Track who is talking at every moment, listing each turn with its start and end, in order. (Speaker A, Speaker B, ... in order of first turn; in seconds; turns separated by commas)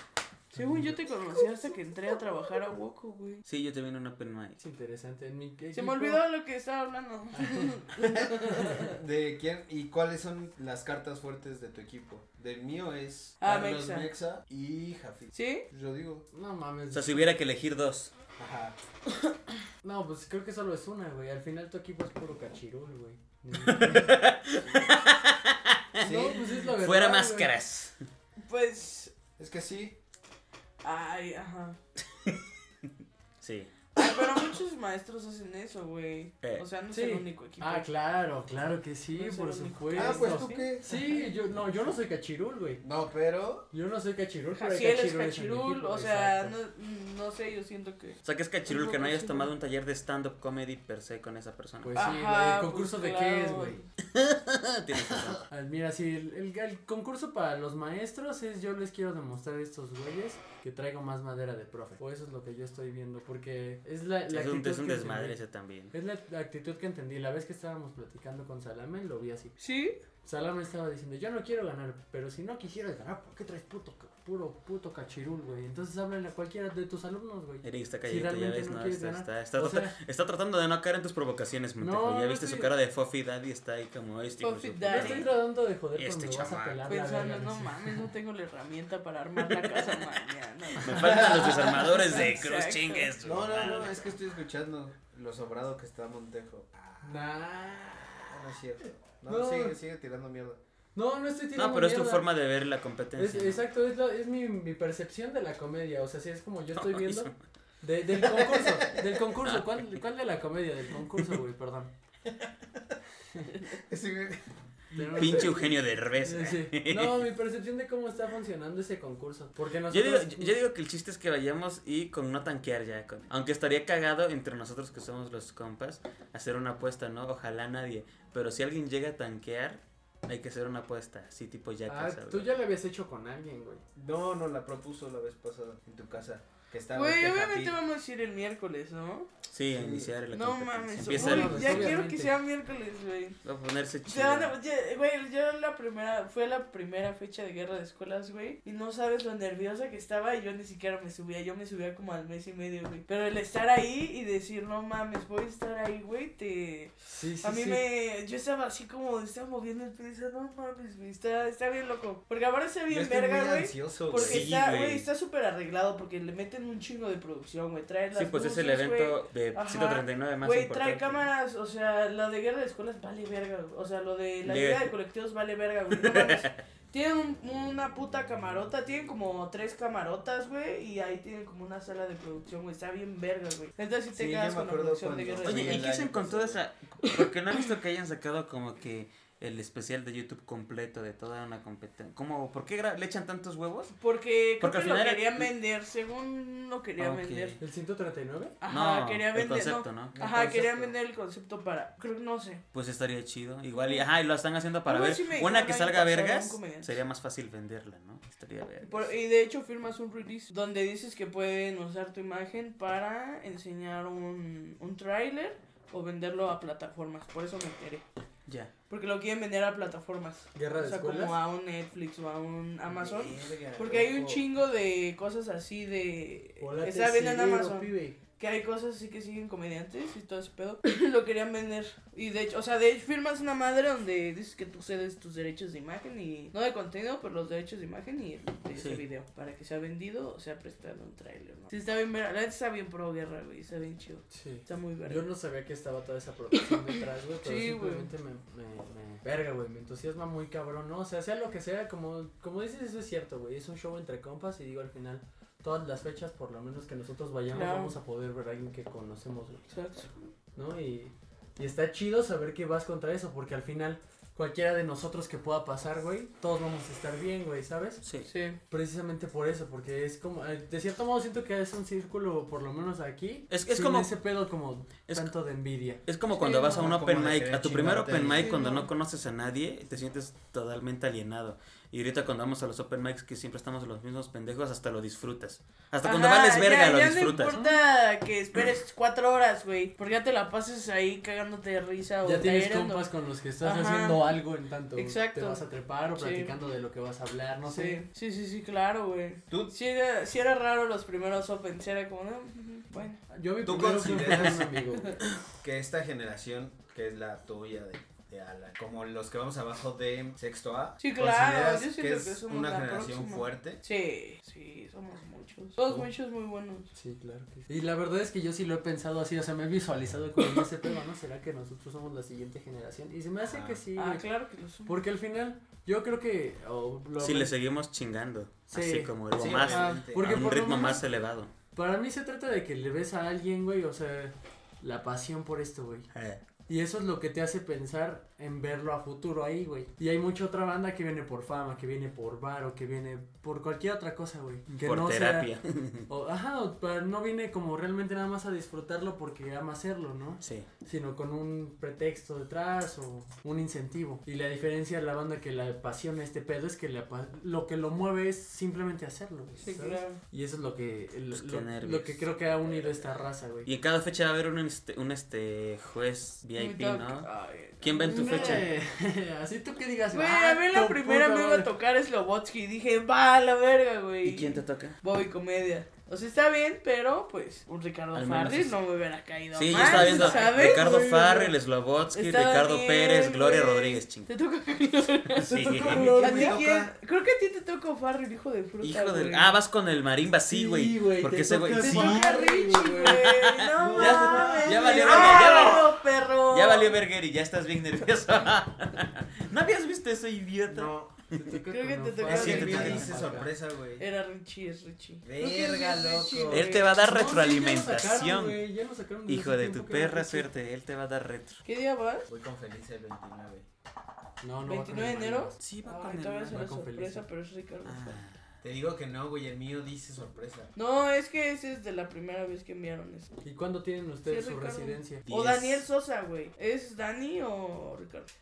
Speaker A: 0.5-3.4, Speaker B: 0.5-1.0, Speaker C: 3.5-4.6, Speaker B: 4.6-6.2, Speaker A: 5.7-9.0, Speaker B: 7.4-7.7, Speaker D: 8.0-16.3, Speaker A: 13.4-14.1, Speaker A: 15.3-15.6, Speaker B: 16.3-17.3, Speaker C: 16.9-18.1, Speaker D: 18.4-18.8, Speaker B: 19.8-24.1, Speaker C: 23.6-28.0, Speaker D: 26.0-26.4, Speaker B: 26.0-27.5, Speaker A: 28.4-29.1, Speaker D: 29.4-30.0, Speaker A: 30.8-31.8, Speaker C: 32.2-34.5, Speaker A: 34.0-37.9, Speaker B: 36.9-42.8, Speaker A: 39.1-41.3, Speaker D: 39.9-41.2, Speaker D: 42.8-43.7, Speaker B: 43.7-46.5, Speaker A: 44.5-49.5, Speaker C: 48.2-51.9, Speaker B: 51.8-53.8, Speaker A: 51.9-53.8, Speaker C: 54.0-55.5, Speaker B: 55.5-65.4, Speaker C: 64.3-65.9, Speaker B: 65.9-69.5, Speaker A: 69.6-70.0, Speaker B: 70.2-80.0, Speaker C: 77.6-85.4, Speaker B: 81.8-82.7, Speaker A: 84.4-85.3, Speaker B: 84.9-88.1, Speaker C: 85.9-86.8, Speaker A: 86.8-93.1, Speaker C: 90.8-94.0, Speaker D: 93.2-97.2, Speaker B: 97.0-98.3, Speaker D: 98.2-100.6, Speaker B: 99.2-99.8, Speaker B: 100.9-102.3, Speaker C: 101.5-103.6, Speaker B: 103.2-111.9, Speaker C: 106.8-107.3, Speaker D: 108.2-109.1, Speaker C: 109.4-109.7, Speaker D: 112.3-112.8, Speaker D: 113.7-114.5, Speaker B: 114.9-120.6, Speaker C: 115.0-117.3, Speaker C: 119.9-132.5, Speaker B: 131.9-133.8, Speaker D: 133.9-137.8, Speaker A: 136.9-139.3, Speaker C: 139.5-142.0, Speaker D: 139.7-140.1, Speaker A: 140.3-143.4, Speaker B: 141.1-142.3, Speaker C: 143.4-144.5, Speaker A: 144.1-185.9, Speaker B: 157.0-157.8, Speaker D: 162.9-164.5, Speaker C: 164.1-165.1, Speaker C: 168.1-171.3, Speaker C: 174.4-174.9, Speaker C: 175.9-176.6, Speaker D: 184.1-186.6, Speaker C: 185.4-193.9, Speaker A: 194.0-197.6, Speaker C: 194.6-195.5, Speaker C: 197.0-197.6, Speaker B: 197.6-198.6, Speaker A: 198.6-202.6, Speaker C: 198.7-200.1, Speaker D: 200.1-200.9, Speaker C: 202.7-209.1, Speaker A: 203.7-204.1, Speaker A: 204.8-207.0, Speaker A: 208.8-218.0, Speaker C: 218.5-218.7, Speaker A: 218.9-245.2, Speaker B: 220.5-221.4, Speaker D: 222.8-224.4, Speaker B: 226.6-228.2, Speaker C: 238.7-239.0, Speaker B: 244.3-259.7, Speaker A: 246.6-248.1, Speaker A: 257.5-257.9, Speaker A: 259.7-260.1, Speaker B: 260.5-268.0, Speaker C: 268.0-268.3, Speaker A: 268.2-268.6, Speaker B: 268.7-276.0, Speaker C: 273.5-274.1, Speaker C: 275.1-275.3, Speaker C: 276.0-287.6, Speaker A: 276.3-276.9, Speaker D: 276.7-278.5, Speaker A: 278.4-278.9, Speaker A: 286.0-293.1, Speaker B: 287.5-287.8, Speaker B: 292.2-298.0, Speaker A: 293.6-294.4, Speaker A: 294.9-295.6, Speaker A: 296.1-296.5, Speaker A: 297.6-303.2, Speaker D: 299.5-299.7, Speaker B: 303.3-305.2, Speaker D: 303.6-304.8, Speaker D: 305.5-313.8, Speaker A: 311.0-316.9, Speaker B: 316.9-324.2, Speaker D: 323.4-323.8, Speaker A: 323.9-325.0, Speaker B: 324.9-327.5, Speaker C: 327.2-331.5, Speaker B: 328.7-331.0, Speaker D: 329.3-330.5, Speaker A: 329.7-330.0, Speaker B: 331.7-336.1, Speaker C: 336.1-336.4, Speaker B: 336.7-345.5, Speaker C: 344.7-346.1, Speaker B: 346.1-363.7, Speaker C: 350.4-350.7, Speaker A: 359.6-360.2, Speaker C: 361.3-363.1, Speaker C: 363.6-367.3, Speaker A: 366.6-368.6, Speaker C: 367.8-368.6, Speaker B: 368.1-371.7, Speaker A: 370.1-381.0, Speaker C: 374.2-375.0, Speaker C: 378.1-378.7, Speaker C: 379.5-384.3, Speaker B: 379.7-381.5, Speaker A: 382.1-389.6, Speaker C: 385.4-386.1, Speaker B: 385.4-386.6, Speaker D: 385.7-386.9, Speaker C: 388.8-392.3, Speaker B: 390.5-393.4, Speaker A: 391.8-397.0, Speaker C: 393.3-401.4, Speaker D: 393.7-395.9, Speaker B: 394.4-394.7, Speaker D: 400.6-401.1, Speaker B: 401.3-403.5, Speaker A: 401.7-403.1, Speaker D: 402.2-404.1, Speaker C: 402.3-403.4, Speaker A: 404.0-407.3, Speaker D: 405.2-406.8, Speaker C: 406.5-408.6, Speaker B: 406.9-410.5, Speaker C: 409.2-411.6, Speaker A: 411.6-412.3, Speaker D: 412.3-413.6, Speaker B: 414.4-415.5, Speaker A: 414.6-418.2, Speaker C: 415.6-416.6, Speaker B: 416.5-417.2, Speaker C: 417.8-418.5, Speaker D: 418.6-420.7, Speaker A: 420.8-423.3, Speaker B: 423.4-425.2, Speaker A: 424.2-428.3, Speaker C: 425.2-425.9